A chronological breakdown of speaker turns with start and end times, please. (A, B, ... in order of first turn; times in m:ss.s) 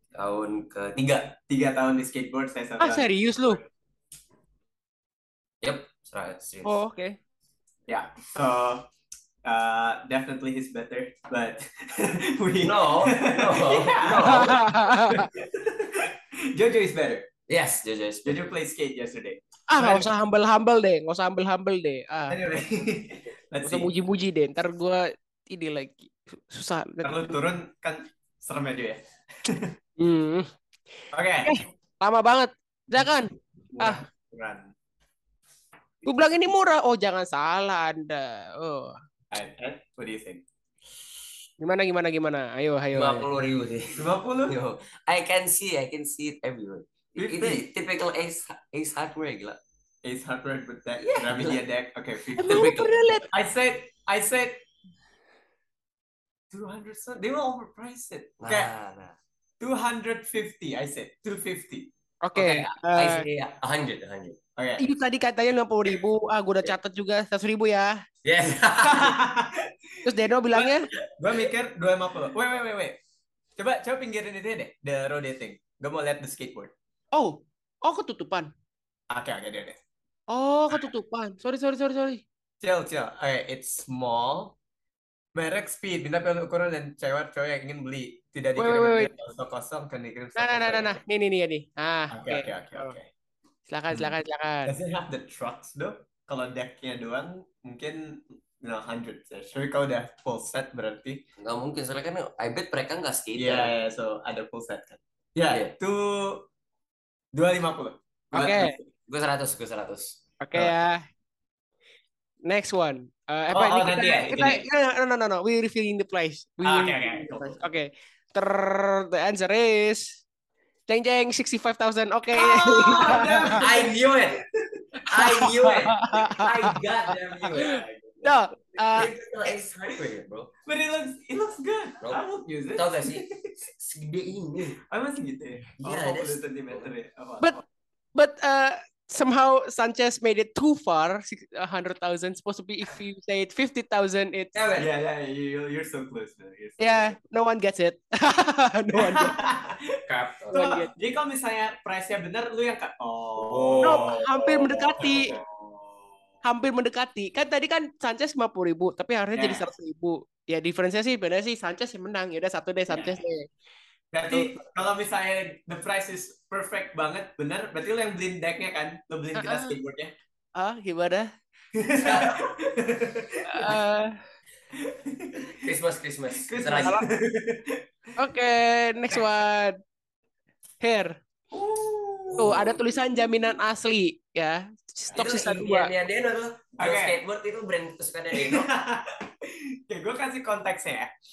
0:00.2-0:01.3 A
0:01.5-0:03.6 B
0:02.8-0:03.6 C
0:05.6-0:06.8 A
0:06.6-0:07.2 C
0:07.9-0:08.8 B
0:09.4-0:17.3 B
0:12.6-0:14.6 A
0:14.3-0:15.3 C
0:17.5-0:18.4 A
0:18.2-0:20.1 B
0:19.7-0:22.4 C
0:22.3-0:23.9 B
0:23.6-0:27.3 C
0:27.0-0:29.7 B
0:30.0-0:30.5 C
0:31.1-0:31.5 B
0:31.4-0:34.0 C
0:33.7-0:34.7 B
0:36.0-0:38.9 C
0:39.3-0:40.4 B
0:41.6-0:43.2 C
0:42.9-0:49.6 A
0:43.9-0:44.6 B
0:47.2-0:47.6 B
0:50.0-0:52.7 B
0:51.0-0:51.6 A
0:52.4-0:53.3 C
0:52.4-0:52.9 A
0:53.3-0:54.6 B
0:56.5-0:58.7 B
0:58.4-0:59.1 A
0:59.6-1:01.9 B
1:02.2-1:03.2 C
1:02.3-1:04.4 A
1:04.6-1:04.8 B
1:04.8-1:08.0 C
1:08.2-1:09.2 A
1:08.8-1:10.0 B
1:10.0-1:10.9 C
1:10.5-1:13.0 B
1:13.6-1:16.7 B
1:17.1-1:18.5 C
1:19.1-1:19.8 B
1:20.3-1:22.2 C
1:22.6-1:24.5 B
1:25.3-1:31.0 B
1:28.6-1:29.1 C
1:30.4-1:32.9 C
1:32.1-1:33.1 B
1:33.7-1:34.8 C
1:34.6-1:41.2 B
1:41.4-1:43.7 A
1:43.4-1:46.4 B
1:47.3-1:48.8 B
1:48.3-1:48.7 C
1:49.1-1:50.2 A
1:50.4-1:51.0 C
1:52.4-2:00.2 C
1:53.5-1:54.6 B
1:56.6-1:57.6 B
2:00.9-2:03.6 C
2:02.3-2:09.5 B
2:03.6-2:04.4 A
2:05.1-2:06.0 A
2:05.6-2:06.7 C
2:07.5-2:09.1 C
2:08.9-2:10.5 A
2:10.6-2:13.6 B
2:12.8-2:13.2 A
2:13.8-2:14.8 A
2:14.8-2:17.6 B
2:15.8-2:16.8 A
2:18.1-2:24.6 C
2:24.5-2:24.9 A
2:24.8-2:27.2 B
2:26.8-2:29.3 C
2:29.0-2:36.0 B
2:30.1-2:30.6 A
2:30.5-2:30.9 C
2:33.4-2:34.2 A
2:33.8-2:35.3 C
2:36.4-2:43.5 C
2:39.4-2:39.6 B
2:44.1-2:50.1 B
2:49.3-2:49.8 C
2:50.6-2:51.3 C
2:51.7-2:53.8 B
2:52.0-2:52.4 A
2:53.4-2:54.2 C
2:54.7-2:55.6 B
2:55.6-2:57.0 A
2:56.3-2:57.8 B
2:56.8-2:57.0 C
2:58.2-2:59.8 C
3:00.8-3:01.2 C
3:01.5-3:02.7 B
3:02.4-3:05.9 C
3:05.1-3:08.6 A
3:06.8-3:07.2 B
3:08.3-3:11.1 B